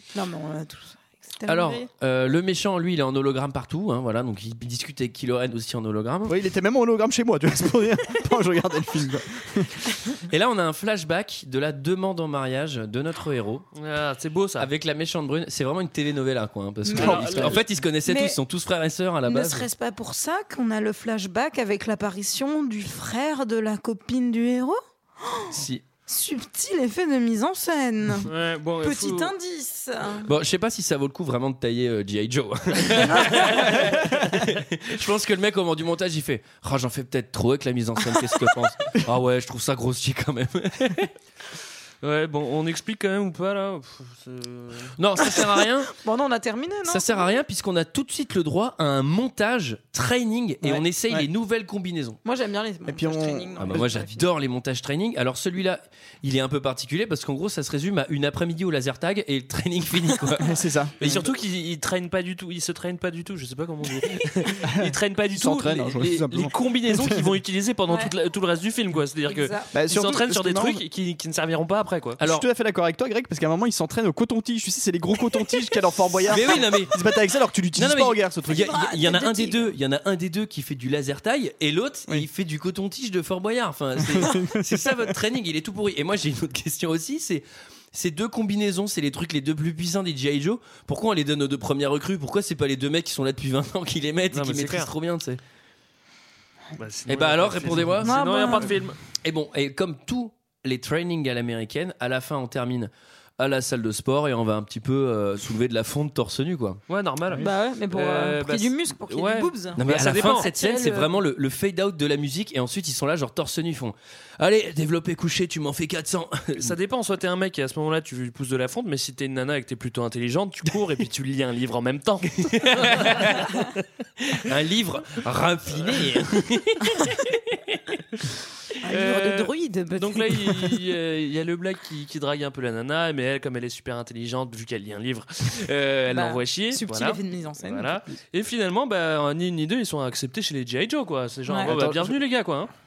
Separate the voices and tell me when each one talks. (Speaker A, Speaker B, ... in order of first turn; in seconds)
Speaker A: 0.1-1.9, 16.9-17.3, 18.1-18.4, 19.3-25.6, 26.1-28.3, 28.8-30.3, 46.0-47.4, 52.2-54.2, 69.3-69.7, 78.5-79.7, 98.0-98.8, 107.4-111.2, 128.8-130.7, 136.1-138.0, 141.5-141.7
Speaker B: 1.4-6.4, 10.3-13.7, 14.6-19.7, 25.5-25.8, 30.3-41.1, 45.0-45.9, 46.9-52.2, 53.6-60.5, 72.2-72.5, 76.3-77.0, 77.8-95.4, 97.1-98.2, 99.2-106.8, 109.8-116.7, 122.5-123.5, 124.3-127.8
Speaker C: 6.3-9.8, 17.0-17.4, 50.6-51.3, 52.9-53.9, 60.4-61.3, 64.6-67.3, 69.7-70.8, 72.2-78.8, 84.0-85.1, 141.7-142.0
Speaker D: 13.8-14.7, 16.9-17.6, 28.2-29.3, 42.0-44.9, 61.0-72.2, 94.3-94.9, 96.8-99.0, 106.9-110.5, 116.6-123.7, 128.9-142.7